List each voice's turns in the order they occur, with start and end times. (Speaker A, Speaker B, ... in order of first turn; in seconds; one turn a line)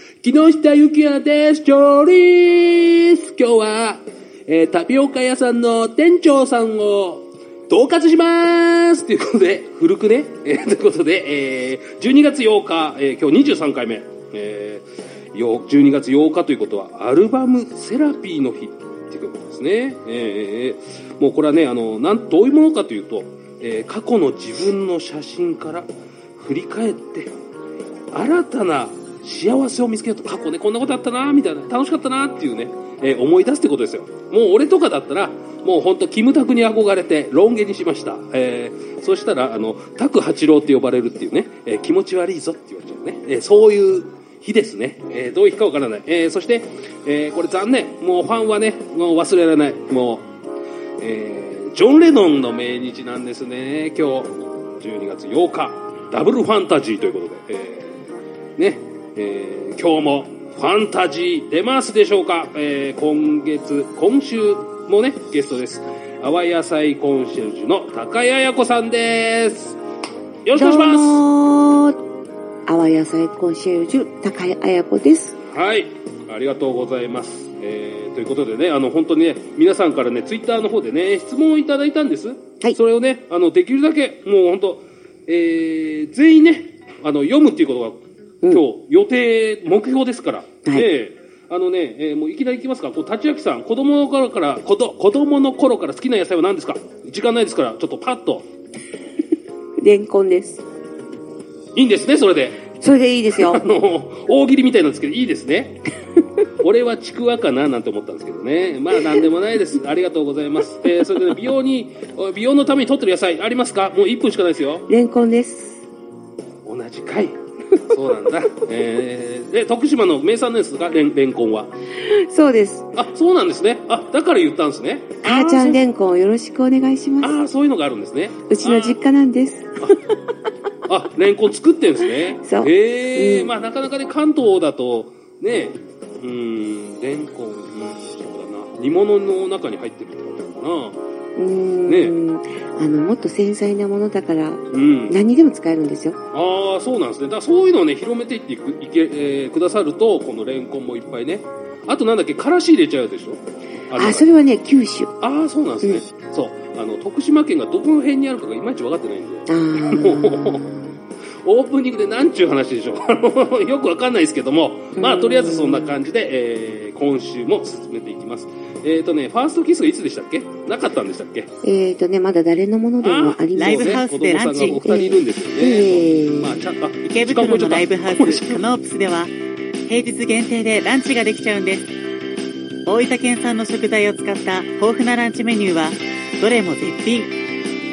Speaker A: 0.2-27.3
Speaker A: 28.1-50.3
Speaker A: 51.0-58.0
Speaker A: 58.6-69.8
Speaker A: 70.4-71.2
Speaker B: 70.5-72.0
Speaker B: 72.7-75.4
Speaker A: 75.5-98.5
Speaker B: 99.8-100.6
Speaker A: 101.7-102.6
Speaker B: 102.8-103.6
Speaker A: 103.3-105.8
Speaker A: 106.6-114.9
Speaker B: 114.9-115.8
Speaker A: 116.6-121.7
Speaker B: 122.0-122.9
Speaker A: 122.9-125.8
Speaker B: 125.2-127.3
Speaker A: 127.2-129.0
Speaker B: 128.5-129.9
Speaker A: 130.8-141.0
Speaker B: 132.4-133.5
Speaker B: 141.3-146.2
Speaker A: 141.8-142.1
Speaker A: 144.7-145.2
Speaker A: 146.3-154.2
Speaker B: 153.9-155.1
Speaker A: 155.2-160.7
Speaker B: 159.5-160.9
Speaker A: 161.4-171.5
Speaker B: 164.9-166.0
Speaker B: 171.6-174.0
Speaker A: 173.0-178.7
Speaker C: 173.6-174.8
Speaker B: 174.6-176.6
Speaker C: 177.0-179.3
Speaker C: 179.9-181.9
Speaker C: 182.8-187.3